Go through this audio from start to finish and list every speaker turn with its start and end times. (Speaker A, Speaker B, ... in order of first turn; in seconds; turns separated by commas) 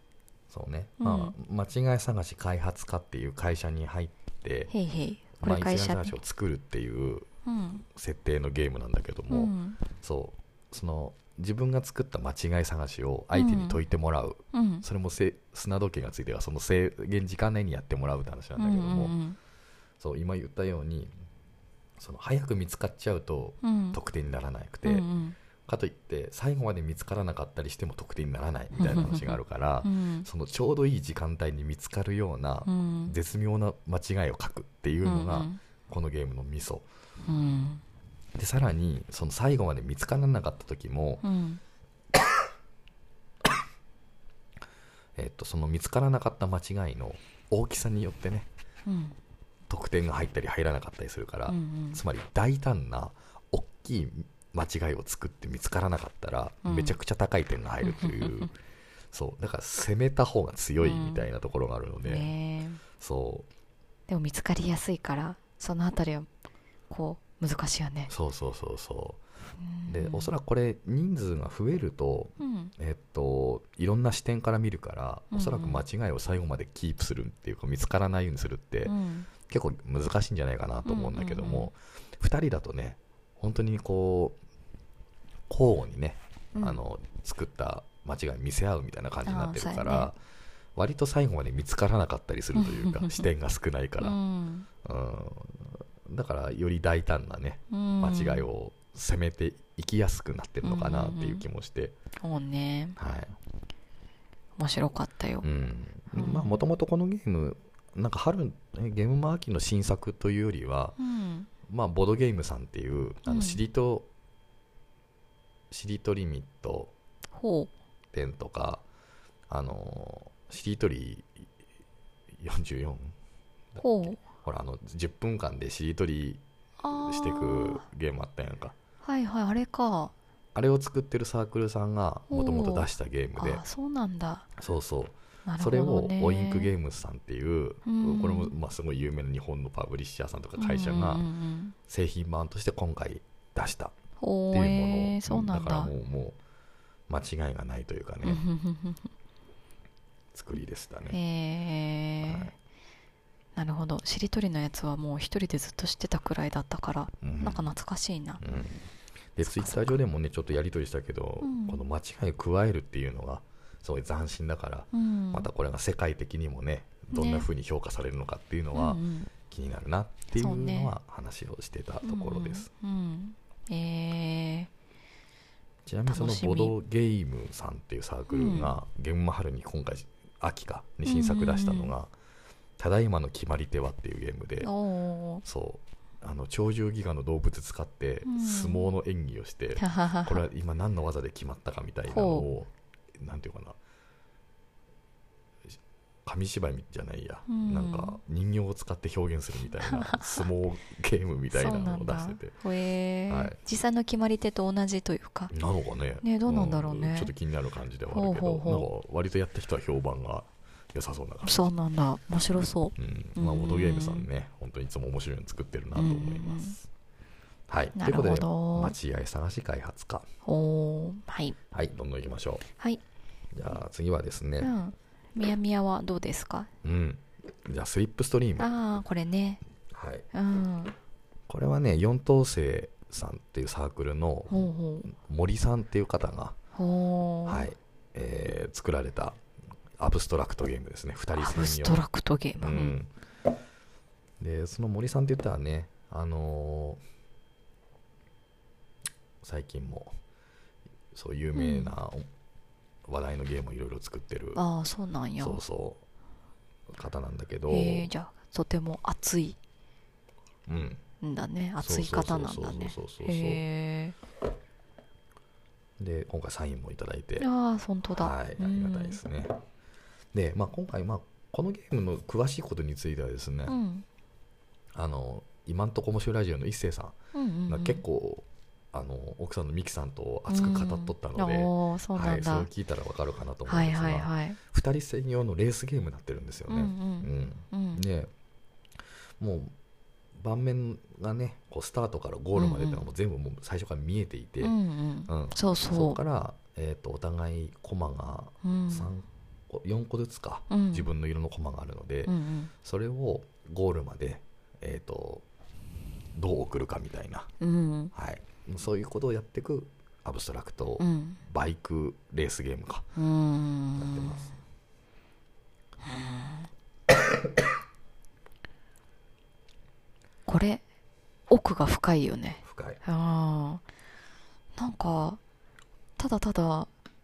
Speaker A: 0.5-4.7, Speaker B: 1.0-1.4, Speaker B: 4.7-6.2, Speaker A: 5.4-7.3, Speaker B: 7.5-7.8, Speaker A: 7.9-19.2, Speaker B: 9.3-9.8, Speaker B: 13.3-13.8, Speaker B: 14.5-14.8, Speaker B: 18.6-19.4, Speaker A: 20.0-21.1, Speaker A: 22.0-25.1, Speaker B: 23.6-24.0, Speaker B: 24.9-25.4, Speaker A: 25.7-36.9, Speaker B: 28.8-30.3, Speaker B: 32.7-33.1, Speaker B: 35.0-35.6, Speaker B: 37.2-37.8, Speaker A: 38.4-41.3, Speaker B: 41.2-41.6, Speaker A: 45.2-48.5, Speaker B: 48.9-49.2, Speaker A: 49.7-58.5, Speaker B: 51.5-52.0, Speaker B: 56.6-57.0, Speaker B: 57.8-58.5, Speaker A: 59.1-62.3, Speaker B: 60.8-61.2, Speaker B: 62.0-62.8, Speaker A: 63.0-63.5, Speaker B: 64.1-66.3, Speaker B: 66.9-68.1, Speaker A: 68.1-69.2, Speaker B: 69.6-70.3, Speaker A: 69.9-79.0, Speaker B: 72.4-72.7, Speaker B: 75.3-75.8, Speaker B: 78.9-79.3, Speaker A: 79.5-84.4, Speaker B: 80.8-81.7, Speaker A: 85.5-90.2, Speaker B: 86.5-86.8, Speaker B: 89.3-90.1, Speaker A: 90.8-94.2, Speaker B: 92.5-93.3, Speaker B: 94.0-94.7, Speaker A: 94.8-102.0, Speaker B: 97.7-98.5, Speaker B: 100.6-101.5, Speaker B: 102.2-103.0, Speaker A: 103.0-103.4, Speaker B: 104.6-105.5, Speaker A: 105.4-111.0, Speaker B: 106.1-106.6, Speaker B: 111.0-111.5, Speaker A: 111.7-114.1, Speaker B: 113.2-113.6, Speaker A: 115.7-116.9, Speaker B: 117.3-117.7, Speaker A: 118.1-118.8, Speaker A: 119.5-121.5, Speaker A: 122.4-123.2, Speaker A: 123.7-128.8, Speaker B: 123.8-124.2, Speaker B: 126.8-127.8, Speaker B: 129.0-130.1, Speaker A: 130.6-133.6, Speaker B: 132.3-134.5, Speaker A: 134.6-141.3, Speaker B: 135.5-136.7, Speaker B: 137.8-138.6, Speaker B: 140.6-141.8, Speaker A: 141.9-143.9, Speaker B: 144.2-145.9, Speaker A: 144.5-146.4, Speaker A: 147.1-148.4, Speaker B: 148.2-149.1, Speaker A: 150.3-151.2, Speaker B: 151.1-152.5, Speaker A: 152.2-152.5, Speaker B: 153.6-158.4, Speaker A: 157.2-157.7, Speaker A: 158.4-158.8, Speaker A: 159.4-172.7, Speaker B: 159.4-160.0, Speaker B: 161.4-161.8, Speaker B: 164.9-165.5, Speaker B: 167.1-167.5, Speaker B: 168.7-169.3, Speaker B: 170.3-170.9, Speaker B: 172.0-174.7, Speaker A: 175.9-182.1, Speaker B: 176.1-176.8, Speaker B: 178.3-178.7, Speaker B: 181.1-181.9, Speaker A: 182.8-184.7, Speaker B: 184.6-185.4, Speaker A: 185.4-193.8, Speaker B: 188.3-188.9, Speaker B: 189.8-190.4, Speaker B: 192.1-192.5, Speaker A: 196.2-202.6, Speaker B: 197.5-198.2, Speaker B: 199.9-200.4, Speaker B: 201.5-205.5, Speaker A: 203.3-203.6, Speaker A: 205.5-211.6, Speaker B: 206.2-207.3, Speaker B: 208.1-208.9, Speaker B: 211.4-214.3, Speaker A: 213.0-216.9, Speaker B: 215.9-216.8, Speaker A: 217.7-220.3, Speaker B: 218.0-219.0, Speaker B: 220.4-221.6, Speaker A: 221.7-222.7, Speaker A: 223.5-224.8, Speaker B: 224.6-226.7, Speaker A: 226.8-228.7, Speaker B: 228.6-229.6, Speaker A: 229.9-230.3, Speaker B: 230.3-231.0, Speaker A: 231.5-236.6, Speaker B: 234.5-235.1, Speaker B: 236.8-237.7, Speaker A: 237.5-239.4, Speaker A: 240.0-242.0, Speaker B: 241.3-243.0, Speaker A: 242.6-243.1, Speaker A: 244.4-247.0, Speaker A: 249.4-250.2, Speaker A: 251.1-252.3, Speaker B: 251.6-251.9, Speaker A: 253.1-254.6, Speaker B: 254.6-255.6, Speaker A: 255.4-256.0, Speaker A: 256.9-258.1, Speaker B: 257.7-259.6, Speaker A: 260.7-261.0, Speaker B: 261.2-264.2, Speaker A: 261.8-263.6, Speaker A: 266.0-267.5, Speaker B: 267.4-269.2, Speaker A: 268.2-269.6, Speaker A: 270.3-273.8, Speaker B: 273.7-274.1, Speaker A: 274.9-277.2, Speaker B: 277.3-278.0, Speaker A: 277.7-288.3, Speaker B: 280.5-282.7, Speaker B: 283.7-284.6, Speaker B: 286.7-288.1, Speaker A: 289.4-289.7, Speaker A: 290.4-294.8, Speaker B: 292.6-293.1, Speaker B: 294.6-296.2, Speaker A: 295.3-305.4, Speaker B: 298.6-299.1, Speaker B: 300.7-301.1, Speaker B: 302.3-302.7, Speaker A: 306.3-307.5, Speaker B: 307.6-308.1, Speaker A: 308.1-313.1, Speaker B: 311.0-311.4, Speaker B: 313.2-314.4, Speaker A: 314.0-314.5, Speaker B: 316.0-316.7, Speaker B: 320.5-320.8, Speaker B: 321.5-323.8, Speaker A: 322.6-323.0, Speaker B: 324.8-325.4, Speaker B: 326.2-326.9